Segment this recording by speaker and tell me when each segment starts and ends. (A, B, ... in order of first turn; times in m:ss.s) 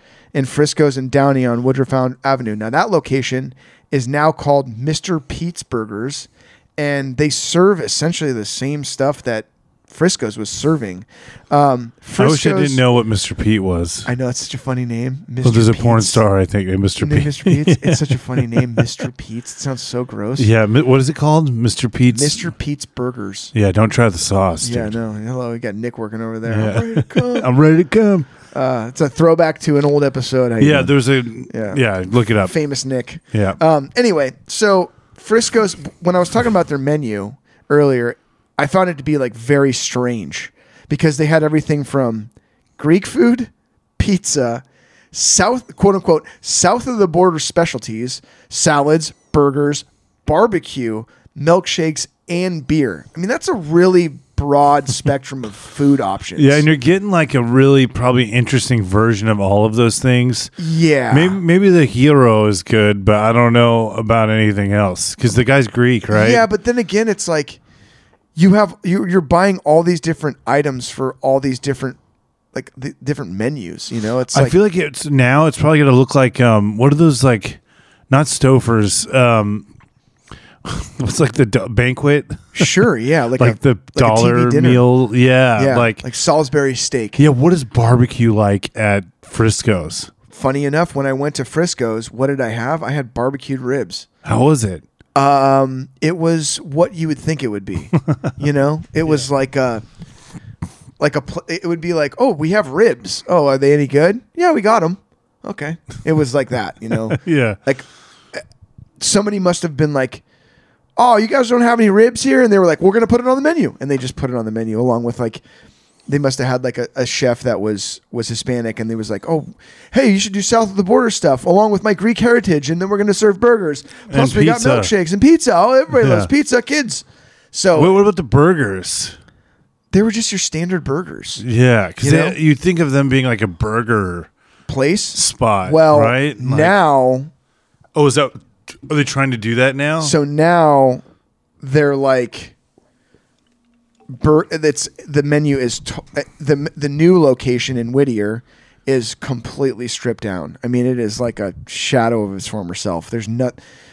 0:00.3-0:12.8 A
0:12.2-0:14.1 B
0:14.1-0:16.2 A
0:15.4-0:18.9 B
0:17.0-0:20.5 A
0:20.4-0:22.5 B
0:22.1-0:23.5 A
0:23.5-0:25.0 B
0:24.6-0:27.5 A
0:26.5-0:28.3 B
0:28.5-0:30.9 A
0:30.6-0:32.5 B
0:31.5-0:31.8 A
0:32.4-0:56.6 A
0:33.3-0:33.6 B
0:56.4-1:00.5 B
1:00.6-1:01.4 A
1:01.1-1:06.4 B
1:06.1-1:07.6 A
1:08.4-1:12.0 A
1:12.5-1:14.6 A
1:14.3-1:19.7 B
1:20.6-1:22.7 B
1:22.6-1:24.8 A
1:23.4-1:26.0 B
1:25.6-1:27.2 A
1:27.2-1:30.1 B
1:30.3-1:34.1 A
1:34.2-1:34.8 B
1:35.2-1:39.8 A
1:41.0-1:48.4 A
1:47.1-1:47.6 B
1:49.0-1:50.2 A
1:51.0-1:55.4 A
1:56.1-2:08.0 A
2:04.1-2:04.9 B
2:05.9-2:06.3 B
2:07.7-2:09.2 B
2:09.9-2:11.4 A
2:11.4-2:14.3 B
2:12.0-2:12.4 A
2:14.7-2:17.3 A
2:15.2-2:16.8 B
2:18.0-2:20.2 B
2:20.0-2:21.0 A
2:21.6-2:22.5 A
2:24.1-2:33.6 A